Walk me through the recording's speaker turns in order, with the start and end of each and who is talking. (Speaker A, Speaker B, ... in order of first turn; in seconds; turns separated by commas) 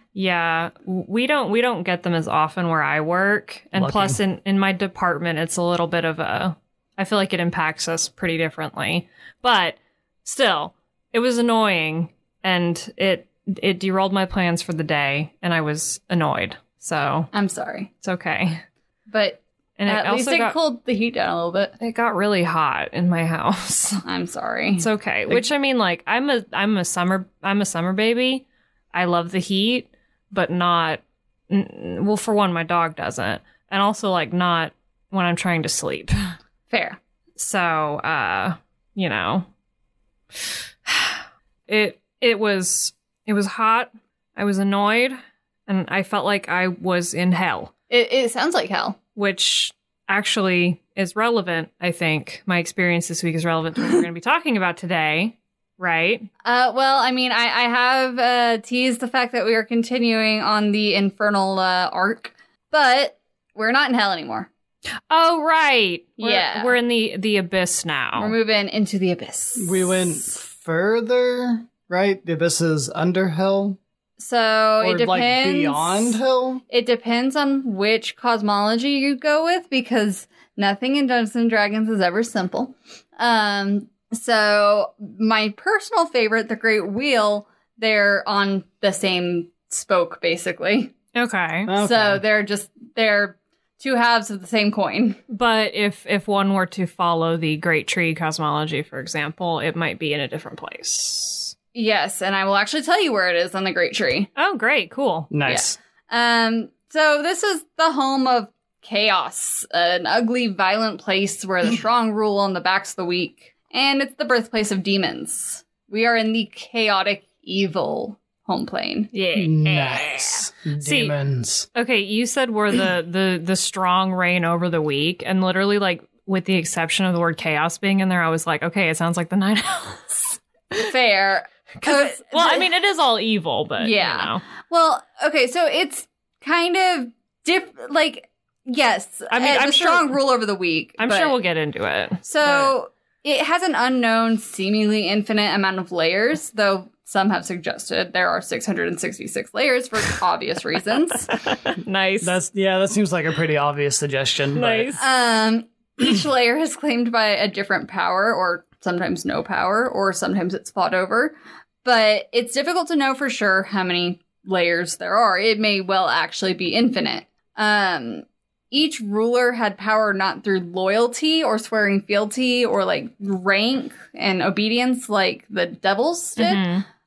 Speaker A: 0.1-17.3, Speaker B: 3.7-4.2, Speaker C: 17.3-17.9, Speaker A: 18.0-18.6, Speaker C: 19.1-21.7, Speaker A: 19.8-20.6, Speaker A: 21.8-24.0, Speaker C: 24.0-24.8, Speaker A: 24.8-36.3, Speaker C: 36.7-37.0, Speaker A: 37.4-39.5, Speaker A: 40.9-47.7, Speaker C: 47.9-49.0, Speaker A: 49.1-56.3, Speaker C: 56.4-64.5, Speaker A: 65.1-68.3, Speaker C: 66.2-66.8, Speaker C: 68.2-70.4, Speaker B: 69.6-73.8, Speaker C: 74.2-90.9, Speaker B: 74.8-76.6, Speaker A: 91.1-91.7, Speaker B: 91.7-92.2, Speaker C: 91.8-95.2, Speaker A: 95.3-101.5, Speaker C: 101.7-104.3, Speaker A: 104.3-105.3, Speaker B: 105.3-105.8, Speaker C: 105.5-119.1, Speaker A: 119.1-121.1, Speaker B: 119.3-121.7, Speaker A: 121.7-130.4, Speaker C: 130.7-132.7, Speaker A: 131.8-134.4, Speaker C: 133.8-141.4, Speaker A: 139.3-140.1, Speaker A: 141.0-142.7, Speaker C: 142.2-151.3, Speaker A: 151.3-152.3, Speaker B: 152.2-154.9, Speaker A: 154.6-155.0, Speaker C: 155.0-176.7, Speaker A: 176.4-176.8